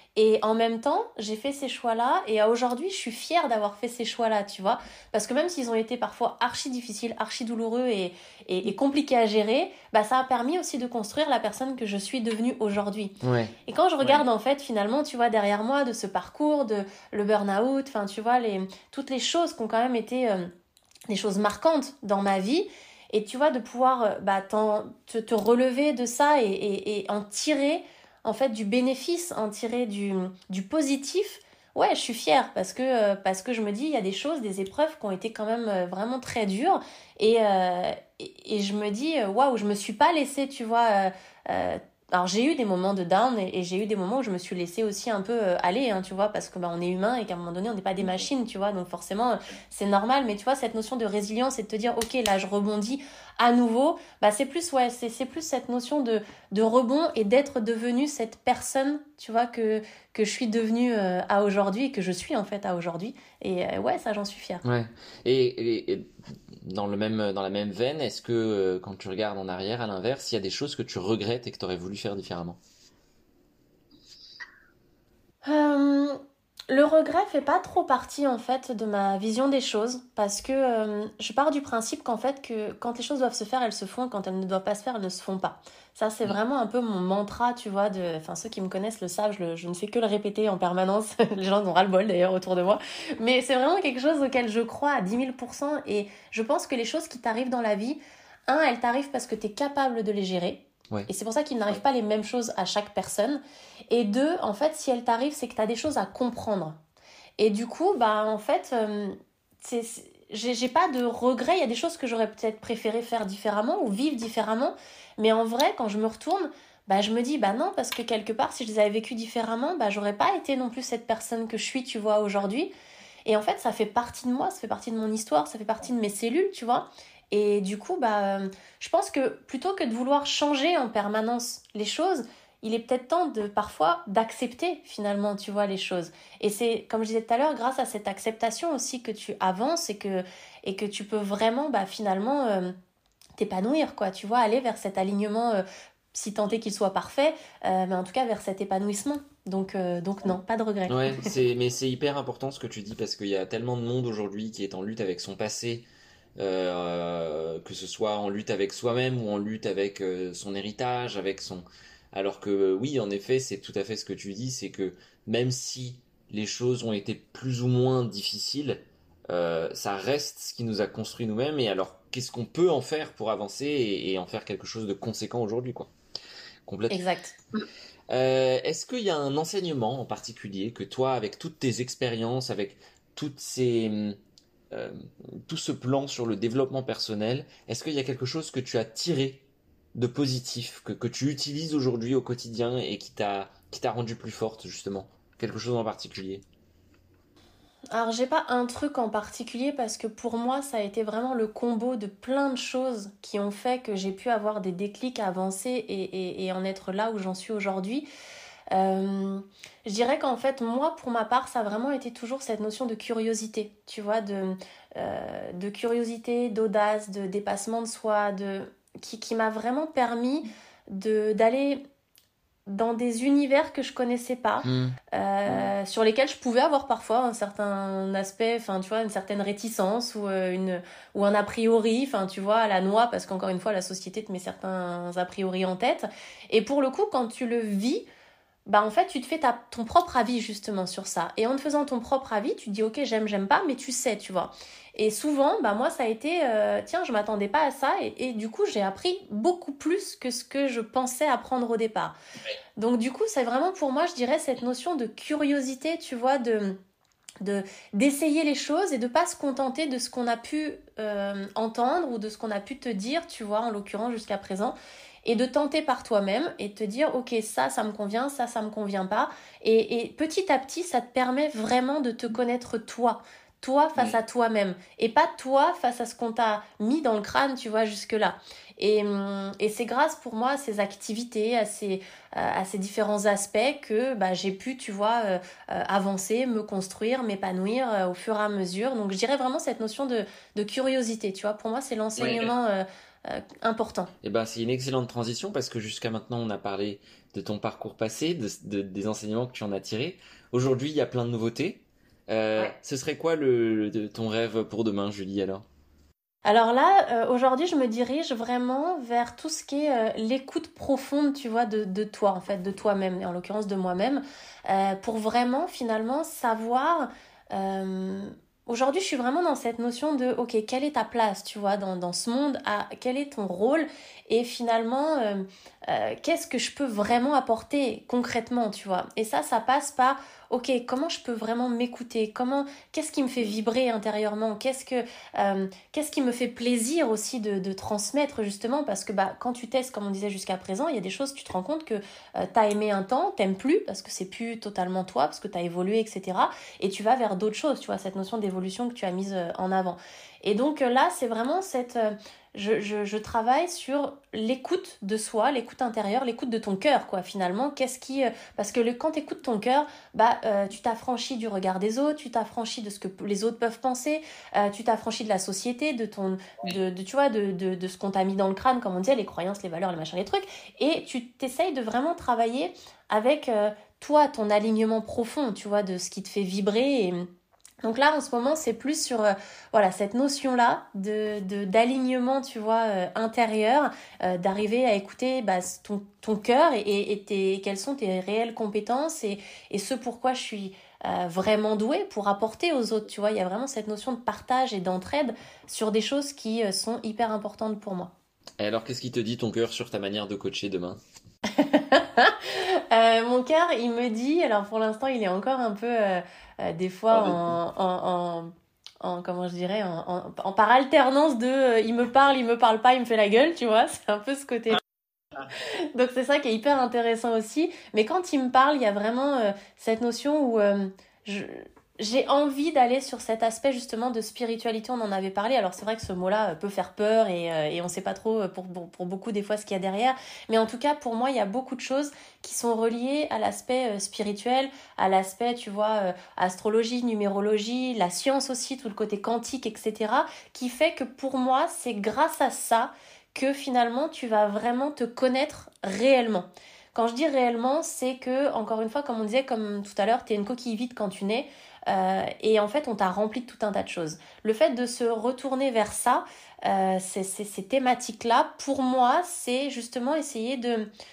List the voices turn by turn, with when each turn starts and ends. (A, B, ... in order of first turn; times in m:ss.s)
0:00.2-0:20.5 A
0:13.2-0:14.2 B
0:21.1-1:04.6 A
1:04.6-1:12.6 B
1:15.4-1:46.8 A
1:47.4-2:02.7 A
2:03.3-2:22.7 A
2:23.4-2:31.3 A
2:30.9-2:35.9 B
2:36.4-2:55.9 B
2:56.7-2:57.0 B
2:56.9-2:57.4 A
2:58.1-3:04.2 B
3:04.7-3:16.4 B
3:17.9-3:28.1 A
3:28.7-3:41.8 A
3:42.7-3:58.0 A
3:44.6-3:45.0 B
3:58.7-4:12.1 A
4:12.8-4:16.8 A
4:17.4-4:54.1 A
4:52.2-4:52.5 B
4:54.2-5:05.6 B
5:06.4-6:17.3 A
6:17.8-6:38.1 A
6:38.6-6:41.0 B
6:41.5-6:54.8 A
6:47.1-6:47.4 B
6:55.5-7:40.9 A